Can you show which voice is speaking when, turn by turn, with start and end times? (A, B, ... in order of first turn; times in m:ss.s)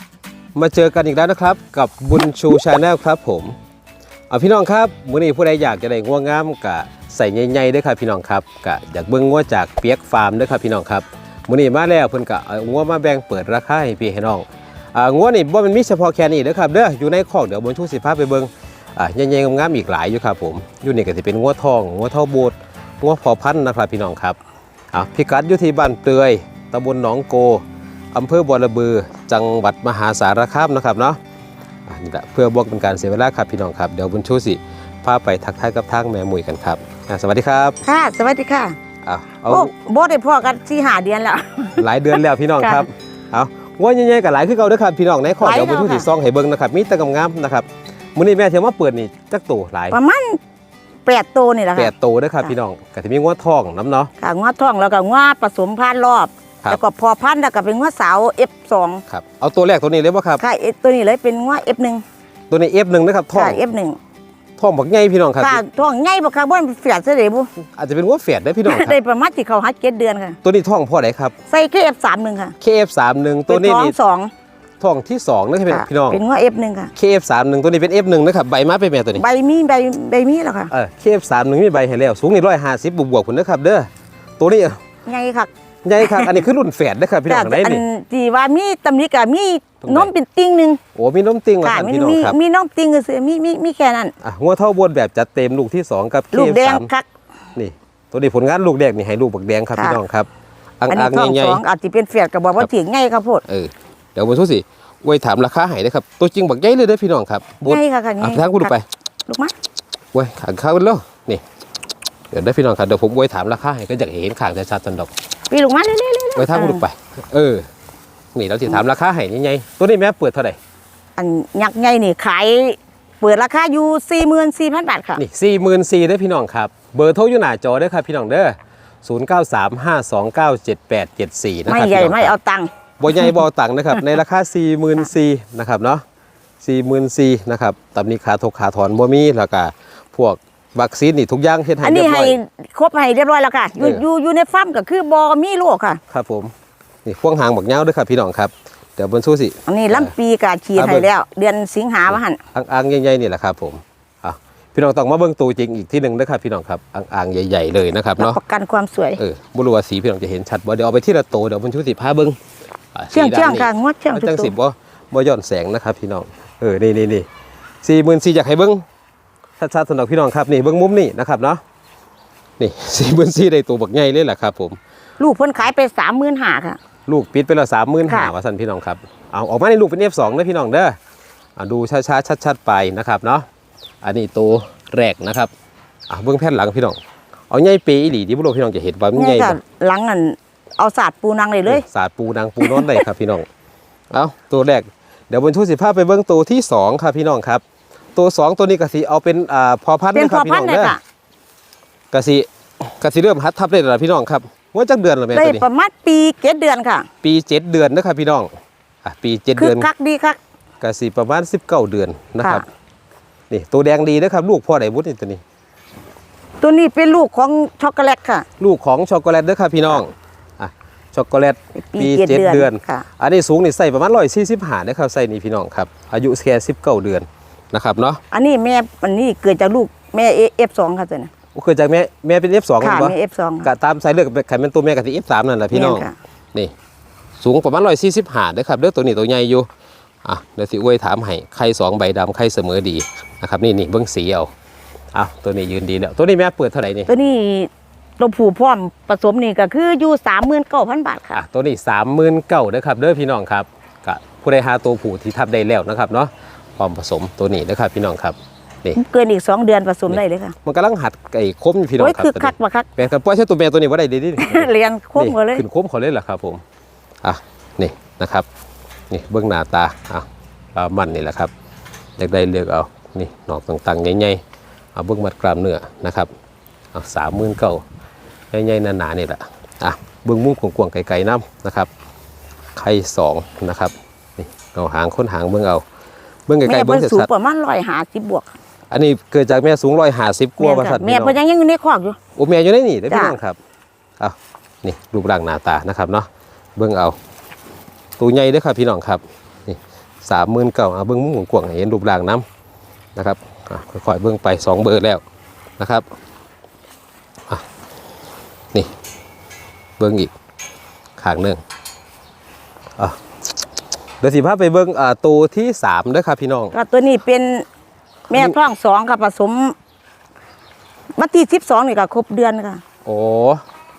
0:00.5-0:03.5 A
0:04.3-0:24.4 A
0:24.9-0:31.2 A
0:31.9-0:37.8 A
0:37.8-0:38.8 B
0:39.0-0:39.7 A
0:39.5-0:42.8 B
0:41.8-0:50.0 A
0:45.4-0:46.1 B
0:49.9-0:50.4 B
0:51.0-0:51.9 B
0:51.8-0:54.1 A
0:54.2-0:59.0 B
0:59.1-1:00.4 A
1:00.4-1:02.0 B
1:02.5-1:03.6 A
1:03.3-1:04.0 B
1:04.6-1:05.6 A
1:05.4-1:07.5 B
1:07.8-1:09.0 A
1:08.7-1:10.4 B
1:10.4-1:11.3 A
1:11.5-1:12.6 B
1:12.6-1:14.0 A
1:13.5-1:14.3 B
1:14.8-1:16.2 A
1:15.7-1:16.9 B
1:17.0-1:19.2 A
1:19.1-1:20.7 B
1:20.7-1:23.9 A
1:24.4-1:24.8 A
1:25.1-1:26.4 B
1:25.8-1:27.8 A
1:27.3-1:30.8 B
1:29.8-1:30.1 A
1:31.0-1:32.4 A
1:31.6-1:34.1 B
1:34.2-1:36.9 A
1:36.3-1:37.1 B
1:37.6-1:40.3 A
1:39.8-1:40.0 B
1:40.8-1:41.6 A
1:40.9-1:43.4 B
1:43.5-1:48.8 A
1:47.6-1:48.7 B
1:49.3-1:49.5 B
1:50.1-1:51.4 A
1:52.3-1:55.1 A
1:55.5-1:56.8 B
1:56.3-1:57.7 A
1:58.3-2:00.6 A
2:01.2-2:05.2 B
2:05.2-2:12.3 A
2:11.7-2:12.7 B
2:13.0-2:16.0 A
2:16.6-2:22.4 A
2:21.8-2:26.0 B
2:26.1-2:26.5 A
2:27.0-2:30.1 A
2:29.7-2:32.4 B
2:30.8-2:31.1 A
2:32.1-2:38.4 A
2:38.2-2:39.2 B
2:39.2-2:42.4 A
2:42.9-2:47.3 A
2:43.1-2:44.5 B
2:47.8-2:48.8 A
2:49.6-2:51.6 A
2:52.6-2:54.8 A
2:55.2-2:56.8 B
2:57.1-3:01.0 A
2:58.1-2:58.3 B
3:01.6-3:03.5 A
3:04.0-3:05.5 A
3:06.1-3:07.0 A
3:07.5-3:09.6 A
3:09.2-3:11.8 B
3:11.7-3:13.5 A
3:12.6-3:13.0 B
3:14.1-3:17.6 A
3:18.2-3:21.0 A
3:20.1-3:21.0 B
3:22.1-3:25.6 A
3:25.3-3:27.1 B
3:27.2-3:28.5 A
3:29.0-3:29.9 A
3:29.6-3:30.4 B
3:30.8-3:32.6 A
3:32.4-3:32.6 B
3:33.5-3:35.4 A
3:36.6-3:38.5 B
3:38.6-3:48.2 A
3:41.8-3:43.1 B
3:48.3-3:51.3 B
3:51.5-3:56.7 A
3:52.8-3:53.7 B
3:55.7-3:56.1 B
3:57.4-3:59.7 A
4:00.2-4:04.5 A
4:05.1-4:07.1 A
4:07.1-4:11.4 B
4:11.3-4:19.0 A
4:18.9-4:20.6 B
4:20.1-4:26.6 A
4:22.0-4:22.9 B
4:24.4-4:25.6 B
4:27.2-4:28.4 A
4:29.1-4:31.5 A
4:32.2-4:34.4 A
4:34.9-4:36.3 A
4:36.9-4:37.8 A
4:38.5-4:41.9 A
4:42.8-4:45.8 A
4:46.5-4:47.3 A
4:46.6-4:48.5 B
4:48.9-4:51.4 A
4:50.6-4:52.2 B
4:52.4-4:53.6 A
4:53.1-4:53.4 B
4:54.2-4:57.2 A
4:58.2-5:02.4 A
5:03.2-5:05.2 A
5:05.8-5:06.0 A
5:10.0-5:10.3 A
5:11.2-5:11.6 A
5:14.2-5:16.7 A
5:16.7-5:17.7 B
5:18.3-5:19.8 B
5:18.3-5:18.6 A
5:21.2-5:22.8 B
5:23.0-5:23.6 A